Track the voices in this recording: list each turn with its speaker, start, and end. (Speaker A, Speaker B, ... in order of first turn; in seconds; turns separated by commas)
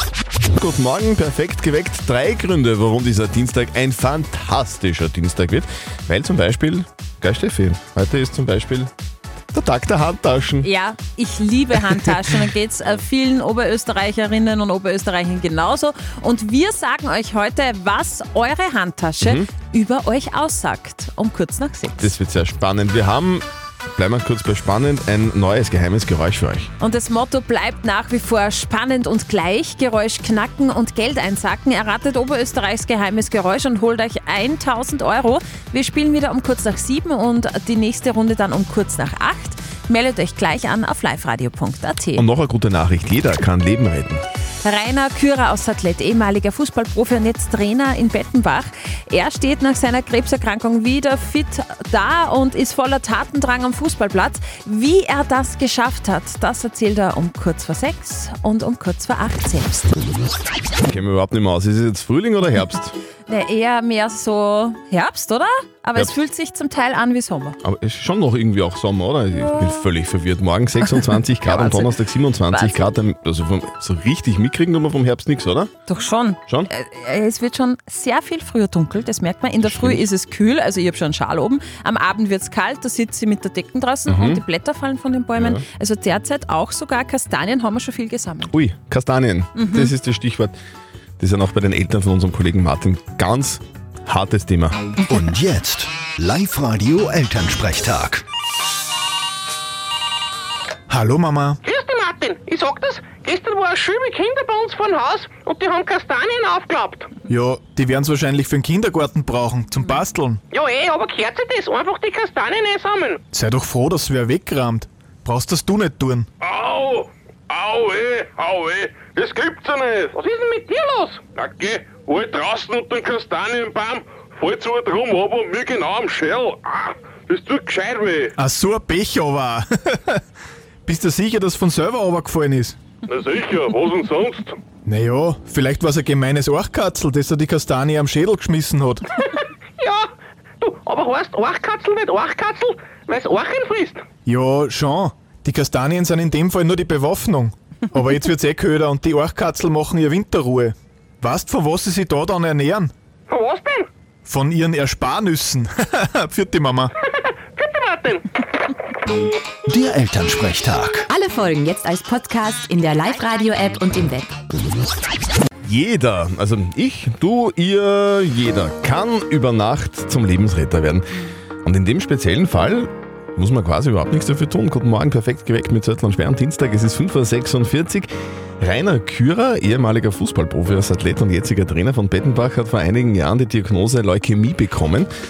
Speaker A: 0.5-8.9, Speaker A: 9.5-10.7, Speaker B: 10.6-22.1, Speaker A: 19.2-19.5, Speaker A: 22.0-26.7, Speaker B: 26.8-42.2, Speaker A: 42.1-44.2, Speaker B: 44.6-59.9, Speaker A: 60.8-63.0, Speaker B: 63.3-67.6, Speaker A: 67.6-75.7, Speaker B: 71.4-72.0, Speaker B: 72.5-72.8, Speaker B: 75.9-88.5, Speaker A: 79.6-80.0, Speaker A: 84.1-84.4, Speaker A: 85.3-85.6, Speaker A: 88.5-90.5, Speaker B: 89.5-89.9, Speaker A: 91.2-94.8, Speaker C: 95.1-98.2, Speaker D: 100.9-101.6, Speaker E: 101.6-107.1, Speaker D: 107.3-110.4, Speaker E: 110.5-113.2, Speaker D: 113.3-116.3, Speaker F: 116.4-120.2, Speaker E: 120.2-121.2, Speaker F: 121.2-128.3, Speaker D: 128.4-130.2, Speaker D: 130.8-132.8, Speaker F: 133.1-134.6, Speaker D: 134.8-139.0, Speaker E: 139.8-140.0, Speaker E: 140.6-144.0, Speaker D: 144.2-152.9, Speaker E: 153.3-153.9, Speaker D: 154.2-156.9, Speaker E: 157.6-158.2, Speaker C: 159.7-161.1, Speaker G: 161.1-164.3, Speaker A: 165.6-178.1, Speaker A: 178.6-185.1